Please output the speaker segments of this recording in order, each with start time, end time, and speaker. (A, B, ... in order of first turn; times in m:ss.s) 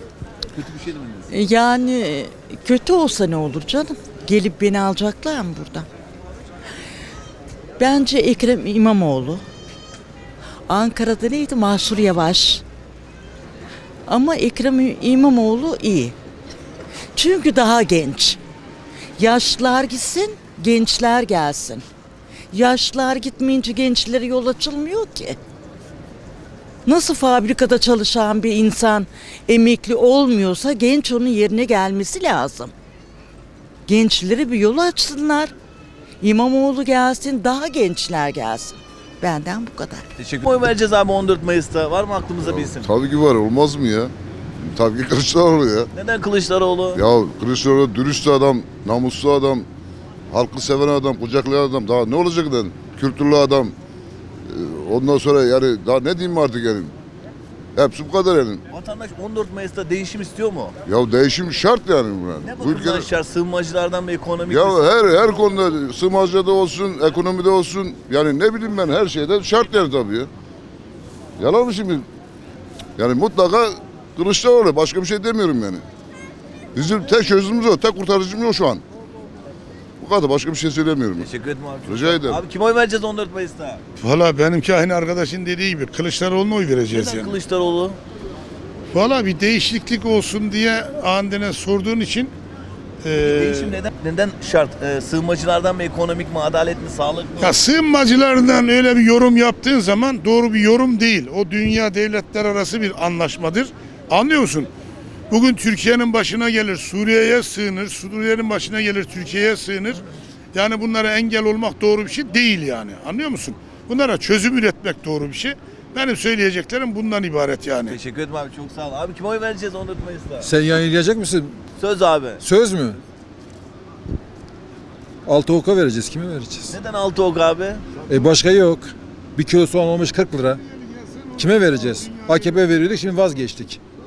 0:00.5-0:01.3 A
0:01.3-0:05.8 B
0:07.8-0:09.4 B
0:10.7-0:12.6 B
0:14.1-0:16.1 B
0:17.2-0:18.4 B
0:19.2-0:21.8 B
0:22.5-0:25.4 B
0:26.9-0:32.7 B
0:33.9-0:35.5 B
0:36.2-0:40.1 B
0:40.2-0:42.9 A
0:42.4-0:45.9 C
0:45.9-0:47.0 A
0:46.9-0:49.7 C
0:50.3-0:53.7 C
0:54.5-0:56.9 C
0:57.7-0:58.6 C
0:58.7-1:00.7 A
1:00.8-1:03.1 C
1:02.4-1:04.9 A
1:04.5-1:10.3 C
1:11.4-1:12.1 C
1:13.0-1:15.8 C
1:16.7-1:18.8 C
1:20.0-1:21.3 C
1:21.2-1:23.8 A
1:21.8-1:22.4 C
1:24.0-1:27.3 D
1:26.9-1:28.0 A
1:28.9-1:32.3 D
1:33.0-1:33.8 D
1:33.2-1:37.6 A
1:37.4-1:44.7 D
1:45.3-1:50.0 D
1:50.5-1:58.0 D
1:57.8-2:00.5 A
2:00.4-2:01.6 E
2:01.8-2:02.4 A
2:02.4-2:03.0 E
2:05.2-2:06.7 E
2:06.7-2:07.8 A
2:08.1-2:10.6 E
2:11.3-2:13.8 E